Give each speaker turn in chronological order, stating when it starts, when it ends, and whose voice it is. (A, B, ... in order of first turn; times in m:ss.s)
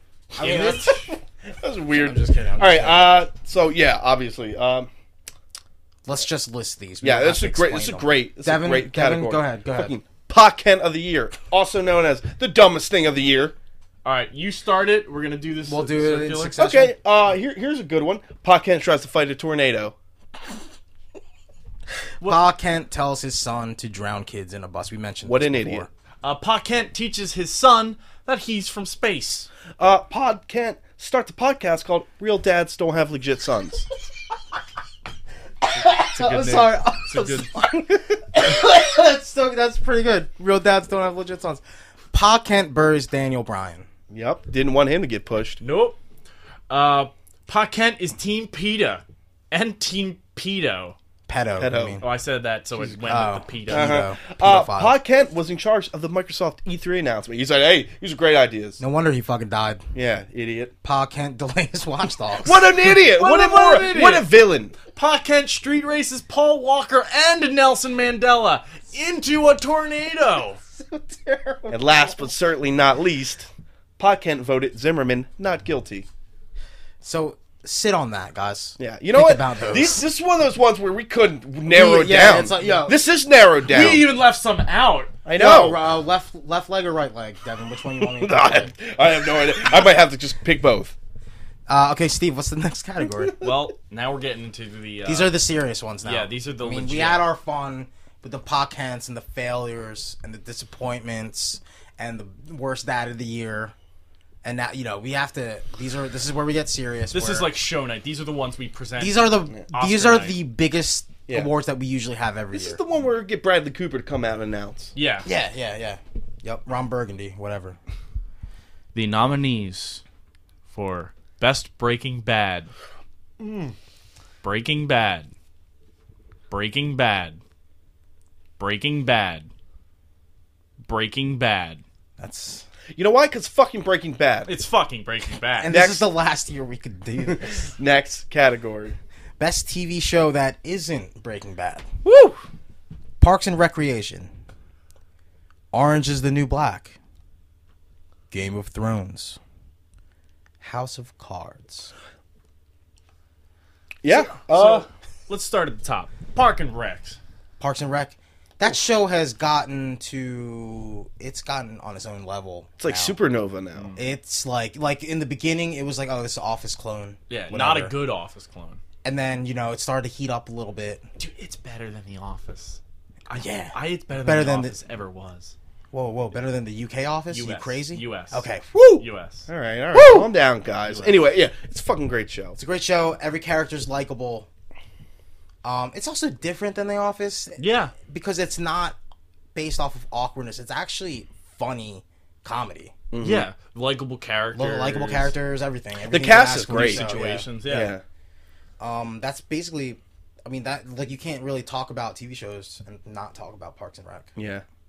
0:00.4-0:01.1 A
0:00.4-0:01.1 B
0:00.4-0:04.9 C
0:01.9-0:03.2 A
0:06.0-0:09.9 A
0:07.0-0:13.5 C
0:14.0-0:16.6 B
0:15.6-0:16.9 A
0:16.6-0:19.9 C
0:22.2-0:25.9 A
0:25.2-0:25.8 C
0:26.2-0:29.5 B
0:29.8-0:33.8 C
0:35.6-0:41.6 A
0:35.7-0:37.5 B
0:42.1-0:43.9 A
0:44.1-0:45.6 C
0:45.6-0:46.0 B
0:46.7-0:51.0 B
0:51.3-0:52.0 A
0:51.6-0:52.0 C
0:52.0-0:54.1 B
0:52.7-0:53.0 C
0:53.0-0:55.0 A
0:53.7-0:58.8 C
0:58.8-0:59.8 A
0:59.9-1:00.7 C
1:00.8-1:02.6 A
1:02.4-1:04.8 C
1:02.8-1:04.3 B
1:04.9-1:10.6 B
1:10.7-1:12.3 A
1:11.7-1:16.0 C
1:17.0-1:20.0 A
1:18.8-1:24.1 C
1:21.7-1:23.0 A
1:23.6-1:25.2 B
1:25.2-1:25.8 C
1:25.4-1:28.7 A
1:28.0-1:30.9 C
1:31.7-1:33.4 A
1:33.1-1:33.5 C
1:33.4-1:35.3 B
1:35.0-1:43.7 A
1:36.0-1:37.2 B
1:44.4-1:47.5 A
1:47.1-1:50.4 B
1:49.0-1:52.8 A
1:52.5-1:54.9 C
1:54.9-1:55.3 B
1:55.2-1:57.8 A
1:58.9-2:00.0 B
2:00.7-2:02.7 B
2:04.4-2:05.3 B
2:06.5-2:07.4 B
2:08.6-2:09.5 B
2:10.8-2:11.8 B
2:12.2-2:12.6 A
2:12.9-2:14.5 C
2:14.5-2:15.7 B
2:15.6-2:17.7 A
2:15.7-2:16.1 C
2:17.2-2:19.0 C
2:19.4-2:21.9 A
2:22.0-2:22.4 C
2:23.2-2:24.3 A
2:25.7-2:27.0 A
2:28.3-2:29.4 A
2:30.6-2:31.9 A
2:34.0-2:34.9 C
2:34.1-2:37.2 B
2:37.6-2:43.2 A
2:42.8-2:43.9 C
2:43.7-2:44.0 B
2:44.0-2:47.9 A
2:47.3-2:48.8 B
2:49.0-2:51.0 A
2:51.2-2:52.8 B
2:53.3-2:54.7 A
2:53.7-2:55.5 B
2:55.9-2:59.0 A
2:57.3-2:58.4 B
2:59.0-2:59.5 B
2:59.5-3:02.6 C
2:59.9-3:00.3 A
3:00.8-3:01.1 B
3:02.6-3:04.5 A
3:05.6-3:09.0 A
3:07.6-3:07.9 B
3:09.5-3:12.9 A
3:13.1-3:13.5 C
3:13.2-3:15.3 B
3:14.5-3:17.5 A
3:16.0-3:17.1 C
3:16.7-3:17.9 B
3:17.6-3:18.0 C
3:18.8-3:24.3 A
3:24.4-3:24.6 C